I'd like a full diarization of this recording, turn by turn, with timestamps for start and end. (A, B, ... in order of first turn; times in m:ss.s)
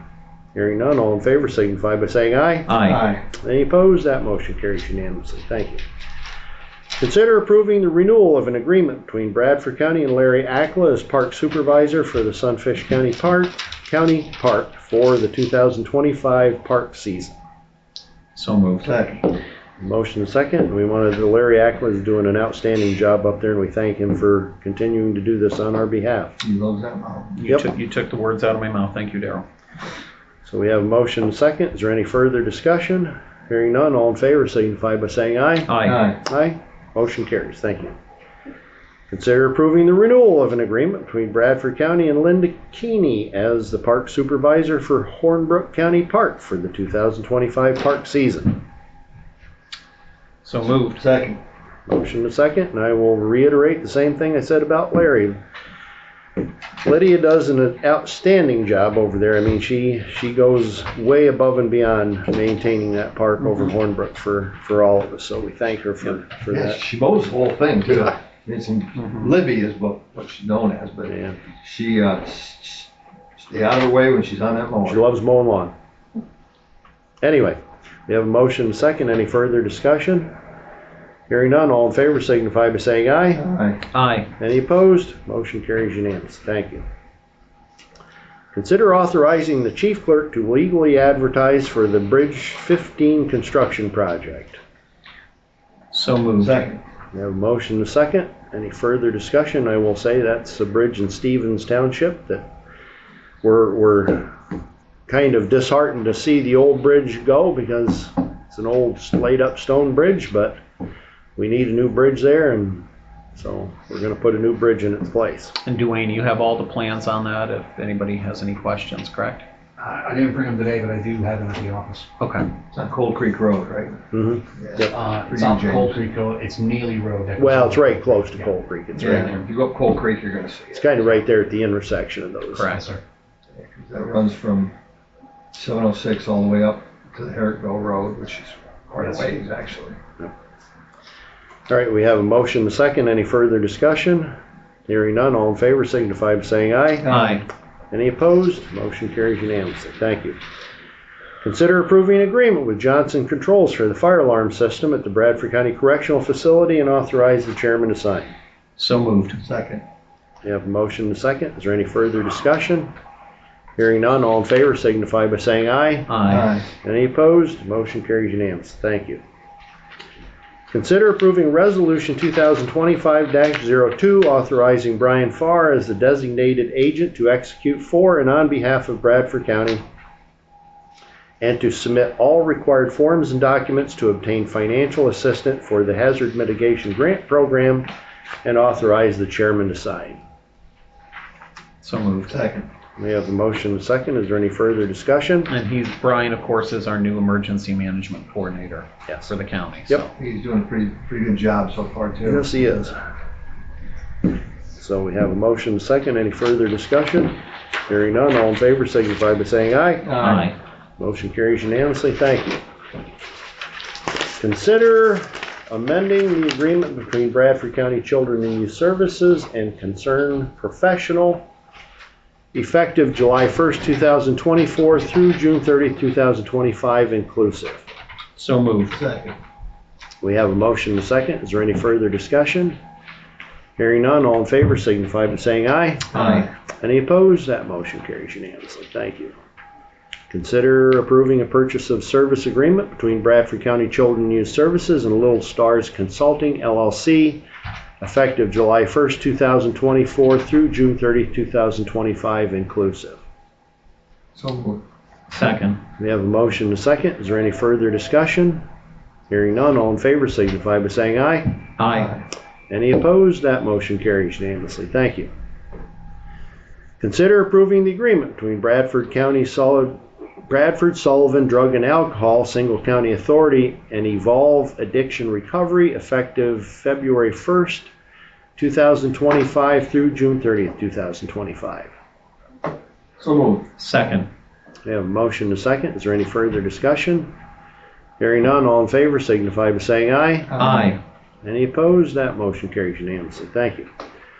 0:00.5-0:02.7 A
0:02.7-0:03.0 B
0:02.8-0:03.2 C
0:03.3-0:05.8 A
0:07.0-0:17.3 A
0:18.3-0:18.9 B
0:18.8-0:19.3 C
0:19.8-0:26.3 A
0:26.4-0:27.4 C
0:27.4-0:29.4 B
0:30.4-0:35.7 A
0:35.6-0:36.0 B
0:35.8-0:36.2 C
0:36.2-0:38.0 A
0:39.1-0:48.6 A
0:50.4-0:51.0 B
0:50.8-0:51.4 C
0:51.9-0:55.4 A
0:56.8-1:06.8 A
1:06.5-1:15.0 C
1:11.1-1:11.4 A
1:14.8-1:15.7 A
1:17.2-1:20.3 A
1:21.3-1:23.4 A
1:23.3-1:23.8 C
1:23.9-1:24.3 B
1:24.4-1:26.8 A
1:28.5-1:34.6 A
1:35.9-1:36.6 B
1:36.4-1:36.8 C
1:37.1-1:42.5 A
1:43.4-1:44.4 A
1:45.1-1:50.6 A
1:51.4-1:55.6 A
1:55.6-1:59.4 B
1:59.8-2:02.1 D
2:02.2-2:02.5 B
2:02.7-2:04.0 C
2:04.1-2:04.9 A
2:04.6-2:06.0 C
2:04.9-2:08.5 D
2:07.4-2:09.4 A
2:09.0-2:10.9 C
2:09.0-2:09.4 B
2:10.8-2:12.7 A
2:12.5-2:13.0 B
2:13.5-2:14.7 C
2:15.5-2:20.0 C
2:21.7-2:24.3 A
2:24.9-2:27.2 A
2:27.0-2:27.4 C
2:27.1-2:27.4 B
2:27.9-2:30.4 A
2:31.4-2:38.3 A
2:38.8-2:39.4 B
2:39.4-2:39.8 C
2:40.4-2:42.9 A
2:43.8-2:46.1 A
2:46.1-2:46.5 B
2:46.2-2:46.6 C
2:46.8-2:49.2 A
2:50.7-2:59.8 A
3:01.4-3:07.9 A
3:08.4-3:10.2 A
3:11.8-3:12.3 B
3:12.3-3:12.7 C
3:13.0-3:15.5 A
3:15.5-3:20.1 B
3:20.2-3:22.5 C
3:22.2-3:23.0 A
3:24.8-3:27.4 A
3:27.9-3:30.1 A
3:30.0-3:30.5 C
3:30.2-3:30.5 B
3:31.0-3:32.6 A
3:34.4-3:41.4 A
3:42.5-3:47.9 A
3:48.4-3:49.0 B
3:48.9-3:49.4 C
3:50.2-3:52.8 A
3:53.8-3:59.3 A
3:56.1-3:56.5 C
3:56.1-3:56.4 B
4:00.3-4:07.4 A
4:08.0-4:13.2 A
4:14.3-4:14.8 C
4:15.3-4:15.8 B
4:16.0-4:18.6 A
4:19.3-4:21.6 A
4:21.8-4:22.1 B
4:21.9-4:22.2 C
4:22.7-4:25.3 A
4:27.0-4:37.9 A
4:38.6-4:41.9 A
4:43.2-4:43.7 C
4:43.8-4:44.3 B
4:44.8-4:47.3 A
4:48.2-4:50.6 A
4:50.5-4:51.0 C
4:50.6-4:51.0 B
4:51.4-4:53.9 A